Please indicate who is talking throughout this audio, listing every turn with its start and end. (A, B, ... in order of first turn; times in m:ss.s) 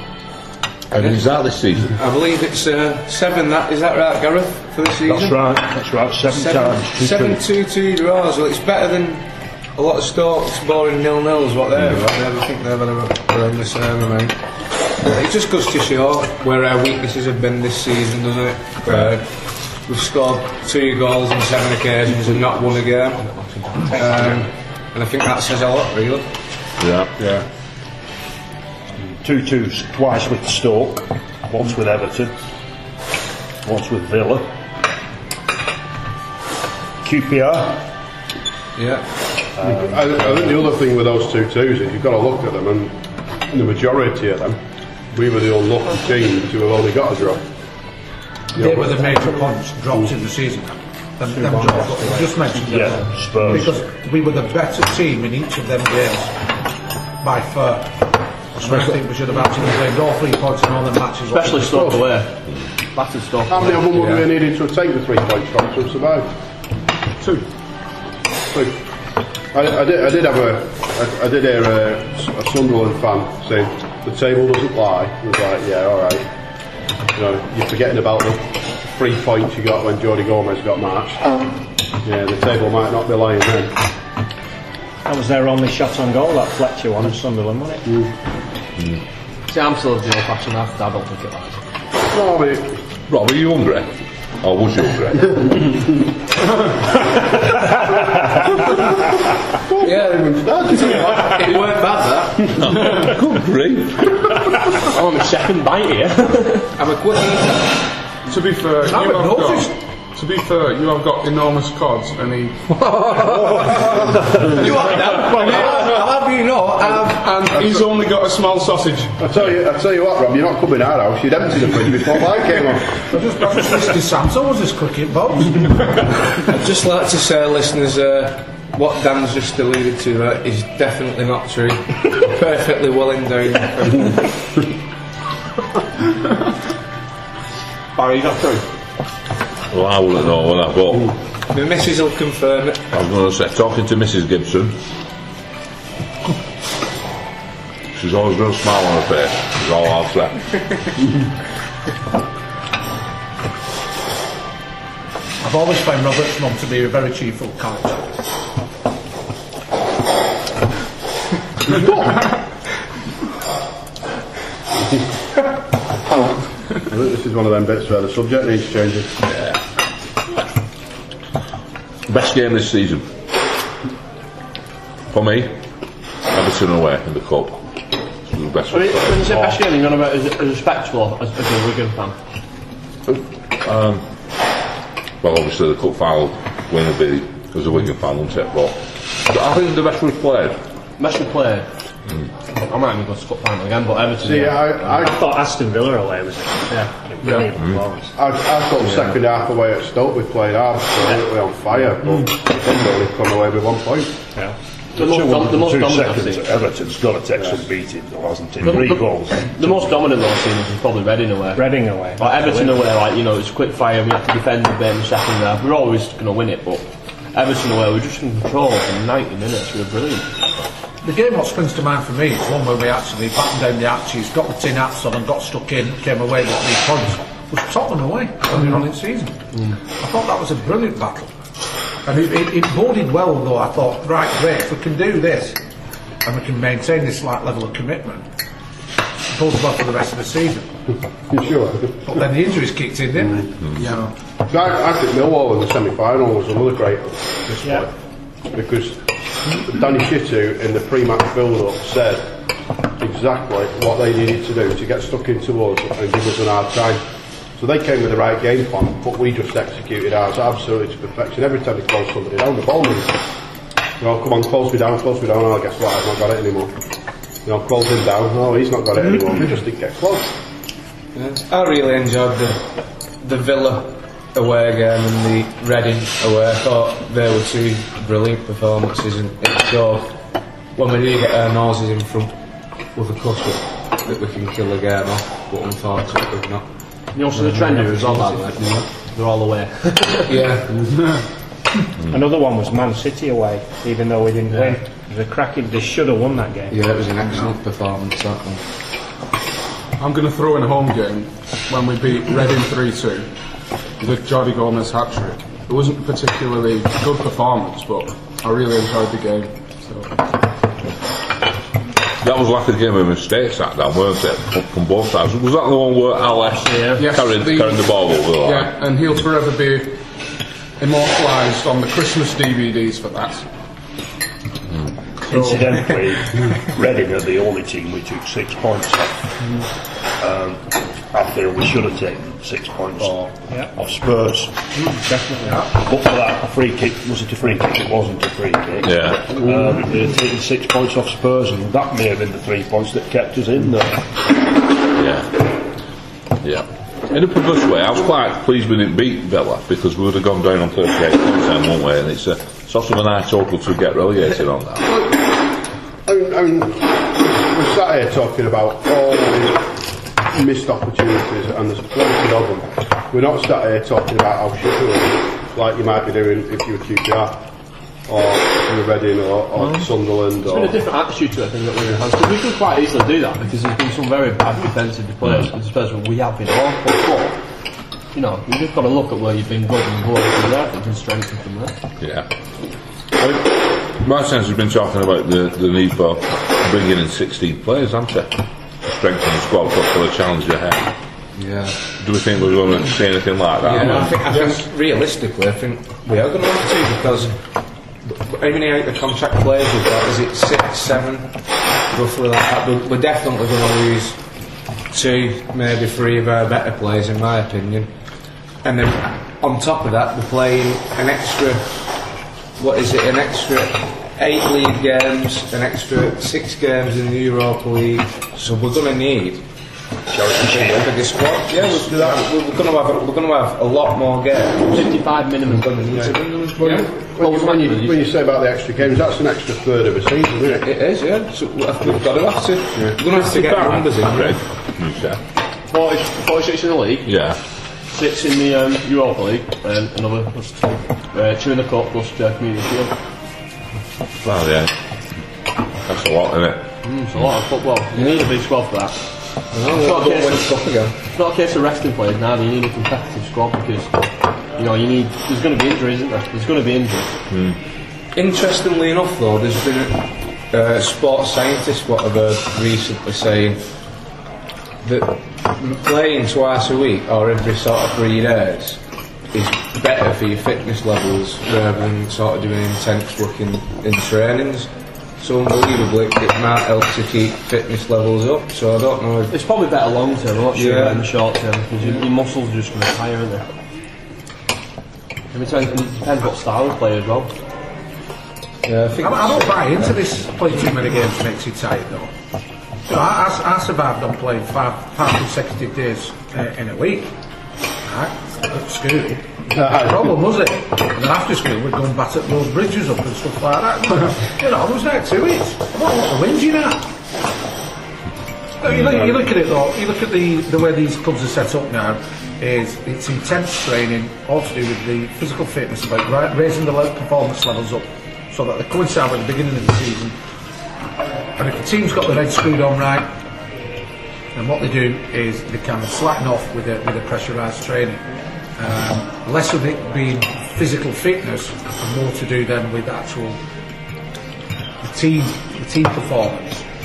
0:00.9-0:01.9 A
0:00.9-0:01.2 B
0:01.9-0:05.4 B
0:05.1-0:07.4 C
0:06.3-0:14.4 B
0:15.0-0:19.3 B
0:19.8-0:26.3 B
0:26.8-0:27.1 A
0:29.2-0:32.3 C
0:33.6-0:34.5 C
0:37.0-0:37.8 C
0:38.8-0:39.1 B
0:39.6-0:40.4 C
0:39.6-0:43.0 D
0:43.5-0:44.6 D
0:45.1-0:47.4 D
0:48.6-0:49.1 D
0:48.6-0:56.3 E
0:51.3-0:53.1 F
0:52.6-0:53.8 C
0:57.2-0:58.0 E
0:58.6-1:02.0 E
1:01.3-1:02.4 G
1:02.9-1:04.1 G
1:03.5-1:06.3 D
1:07.2-1:07.4 H
1:08.5-1:08.8 D
1:09.5-1:16.2 D
1:17.1-1:21.2 D
1:22.0-1:23.8 D
1:25.1-1:28.0 F
1:29.5-1:31.6 G
1:32.1-1:32.8 D
1:33.1-1:35.5 A
1:39.6-1:41.7 D
1:39.8-1:42.6 B
1:42.6-1:44.2 A
1:44.8-1:46.7 G
1:46.8-1:47.7 B
1:48.3-1:52.7 H
1:48.9-1:49.7 E
1:52.9-1:53.5 A
1:54.4-1:57.2 B
1:57.0-1:59.2 H
1:59.2-2:03.0 D
2:03.1-2:05.9 E
2:06.5-2:14.3 B
2:18.0-2:18.5 B
2:19.7-2:21.1 A
2:21.5-2:22.9 B
2:22.9-2:24.8 A
2:27.9-2:30.4 A
2:35.4-2:38.1 E
2:46.8-2:49.2 D
2:52.1-2:53.1 A
2:55.1-2:55.6 A
2:56.3-2:57.6 A
2:58.3-2:59.5 A
2:58.7-3:02.2 G
3:03.1-3:04.0 A
3:05.2-3:10.6 A
3:11.0-3:11.7 G
3:12.6-3:15.0 G
3:14.2-3:15.2 D
3:15.0-3:18.1 F
3:17.2-3:17.5 H
3:18.1-3:24.2 D
3:24.9-3:29.9 C
3:25.0-3:26.5 G
3:28.6-3:40.3 G
3:31.6-3:32.8 F
3:41.0-3:49.4 E
3:50.0-3:51.3 E
3:52.0-3:55.6 E
3:56.2-3:58.2 E
3:59.3-4:00.7 E
4:01.3-4:02.1 D
4:02.0-4:03.8 E
4:03.8-4:04.0 H
4:04.5-4:07.9 D
4:08.5-4:12.3 D
4:13.0-4:17.0 D
4:17.6-4:23.2 D
4:24.0-4:26.7 D
4:27.4-4:30.3 D
4:31.1-4:32.6 B
4:33.2-4:40.1 B
4:40.8-4:42.3 B
4:43.0-4:46.6 B
4:47.1-4:50.6 G
4:47.3-4:48.9 B
4:50.3-4:51.0 B
4:52.1-4:56.8 F
4:56.7-4:58.6 B
5:00.0-5:03.3 H
5:04.0-5:10.1 H
5:12.2-5:18.7 A
5:16.7-5:17.0 G
5:17.0-5:20.0 H
5:20.8-5:23.4 H
5:25.2-5:29.6 C
5:25.3-5:25.6 H
5:30.2-5:34.6 C
5:34.9-5:35.7 F
5:35.6-5:44.2 C
5:38.8-5:39.3 A
5:44.9-5:45.5 A
5:46.4-5:54.9 A
5:54.9-5:55.4 D
5:56.0-5:59.7 D
6:00.3-6:07.4 D
6:08.1-6:10.8 D
6:10.4-6:17.4 G
6:15.2-6:15.5 A
6:18.1-6:21.8 G
6:22.0-6:22.3 A
6:23.2-6:30.9 A
6:31.4-6:31.8 B
6:32.0-6:34.1 A
6:33.6-6:37.4 B
6:34.1-6:34.6 H
6:38.1-6:41.4 B
6:41.9-6:44.2 B
6:44.9-6:47.9 B
6:48.6-6:51.8 B
6:52.6-6:59.4 B
7:00.1-7:00.9 C
7:00.4-7:05.0 B
7:04.7-7:06.1 G
7:05.5-7:06.9 B
7:06.0-7:10.6 D
7:07.2-7:08.1 G
7:10.5-7:14.4 B
7:13.2-7:15.2 A
7:15.7-7:17.1 G
7:17.0-7:17.4 A
7:17.9-7:23.0 G
7:24.2-7:24.7 A
7:25.8-7:26.6 A
7:26.8-7:29.0 G
7:29.5-7:31.0 B
7:29.7-7:30.5 G
7:31.1-7:34.0 G
7:34.5-7:37.2 G
7:37.3-7:37.6 A
7:38.1-7:43.6 B
7:44.8-7:48.8 B
7:49.3-7:59.3 B
7:59.3-8:03.5 G
8:00.5-8:01.1 B
8:05.3-8:07.3 G
8:08.6-8:09.5 B
8:09.0-8:12.1 E
8:12.9-8:17.1 E
8:17.8-8:26.9 E
8:19.5-8:20.1 D
8:28.6-8:40.1 E
8:41.4-8:43.1 E
8:44.4-8:48.0 E
8:48.6-8:53.4 E
8:54.8-8:56.6 E